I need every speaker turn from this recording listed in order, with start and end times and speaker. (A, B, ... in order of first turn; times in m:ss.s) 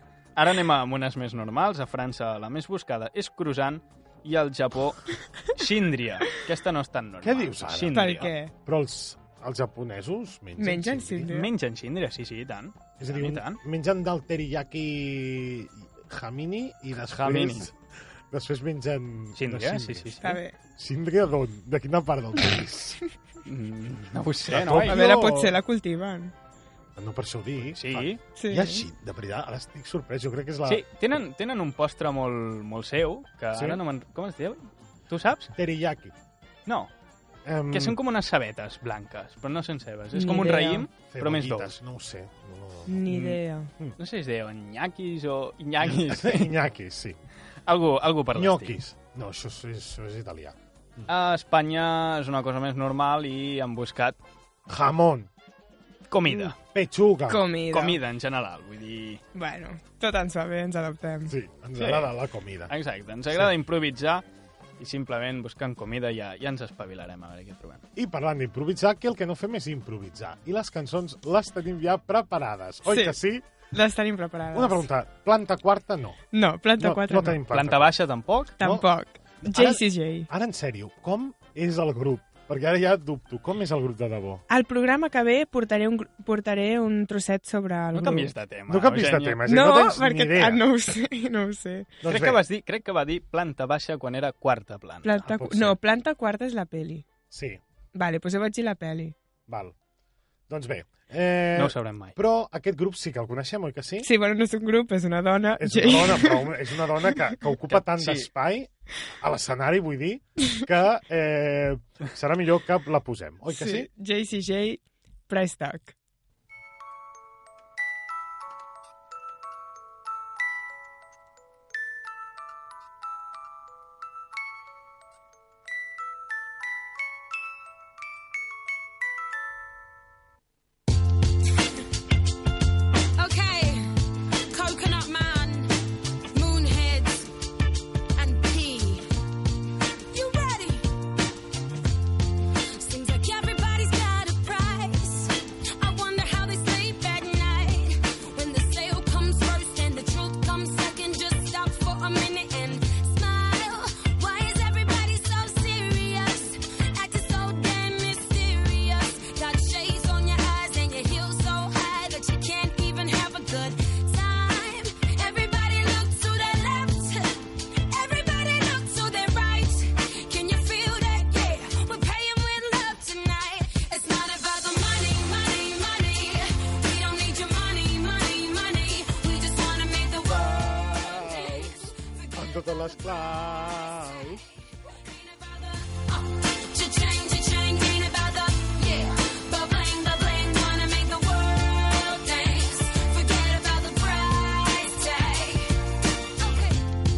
0:00.4-0:08.3 A
0:07.2-0:11.3 B
0:07.9-0:08.5 C
0:10.6-0:11.5 C
0:11.3-0:13.6 A
0:13.0-0:17.7 B
0:17.2-0:17.7 A
0:18.3-0:20.2 B
0:19.4-0:20.4 A
0:20.2-0:20.6 C
0:20.8-0:23.0 B
0:23.4-0:25.2 A
0:24.5-0:25.5 B
0:24.8-0:26.3 C
0:27.0-0:30.8 B
0:27.7-0:28.2 A
0:28.3-0:28.8 C
0:30.6-0:35.5 A
0:33.5-0:33.8 B
0:35.6-0:36.1 B
0:36.6-0:36.9 A
0:37.4-0:38.0 B
0:37.7-0:41.8 A
0:40.1-0:40.9 C
0:41.1-0:43.0 B
0:42.9-0:43.7 C
0:43.1-0:43.4 A
0:44.0-0:46.5 A
0:45.8-0:47.2 B
0:47.6-0:48.7 A
0:48.3-0:51.1 B
0:51.1-0:54.2 A
0:54.7-0:55.3 B
0:56.1-0:56.5 A
0:56.5-0:57.4 B
0:57.3-0:58.0 C
0:57.7-0:59.2 A
0:59.3-1:01.3 C
1:01.3-1:02.7 B
1:01.8-1:02.1 A
1:02.7-1:04.2 A
1:04.8-1:07.8 A
1:08.0-1:13.4 B
1:12.8-1:13.2 C
1:13.7-1:14.8 C
1:14.5-1:16.2 B
1:16.3-1:17.4 C
1:16.8-1:17.9 B
1:17.5-1:18.6 A
1:18.6-1:18.9 B
1:18.6-1:20.3 C
1:19.4-1:24.4 B
1:24.5-1:28.2 C
1:27.9-1:29.4 A
1:28.0-1:30.6 B
1:29.4-1:32.0 C
1:32.0-1:32.4 B
1:32.0-1:35.6 A
1:35.0-1:37.1 C
1:35.3-1:35.7 B
1:37.3-1:37.6 B
1:37.9-1:39.1 C
1:39.5-1:39.7 B
1:40.5-1:44.1 B
1:41.5-1:42.2 A
1:44.0-1:46.5 C
1:45.6-1:53.9 B
1:47.7-1:48.3 A
1:53.5-1:55.9 C
2:13.2-2:13.9 D
2:14.5-2:15.7 D
2:16.3-2:17.3 D
2:18.2-2:19.1 D
2:20.1-2:20.9 D
2:22.7-3:02.9 D
3:01.1-3:01.6 B
3:02.3-3:04.4 B
3:03.8-3:15.7 D
3:16.4-3:16.9 D